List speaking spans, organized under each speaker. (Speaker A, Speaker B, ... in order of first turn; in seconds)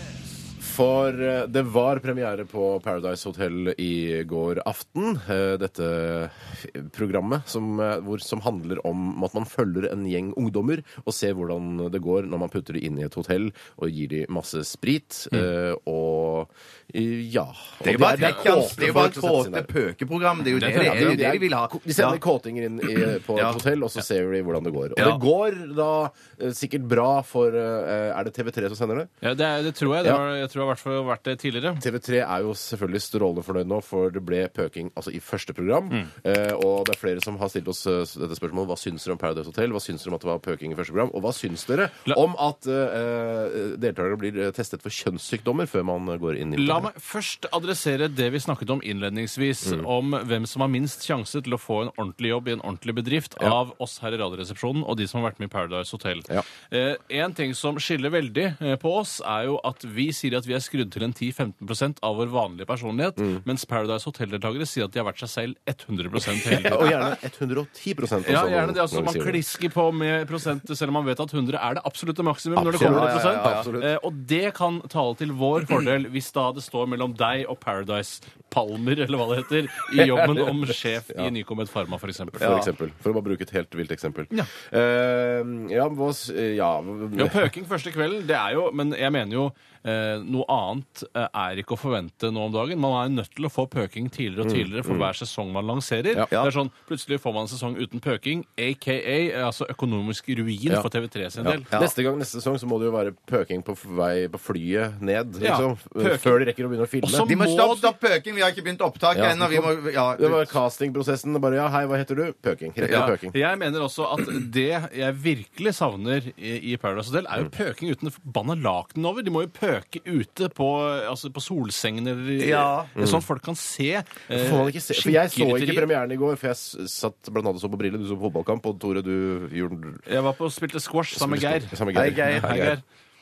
Speaker A: 0.6-19.7, 20.6-29.1, 30.0-30.2, 31.8-46.9, 63.2-63.4, 66.3-69.4, 72.6-73.9, 79.9-81.3, 82.4-87.4, 94.4-95.1, 100.7-107.3, 109.1-113.3, 123.0-123.3, 124.3-130.0, 131.1-132.8
Speaker B: 17.8-22.2, 22.9-23.6, 25.0-25.2, 72.7-73.7, 82.4-82.7, 107.2-110.6, 112.8-113.1, 122.4-122.9, 131.9-132.7
Speaker C: 18.1-18.6, 20.6-21.2, 29.2-31.8, 46.6-67.2, 68.2-82.6, 87.2-101.7, 105.4-107.9, 112.9-125.9, 130.1-132.8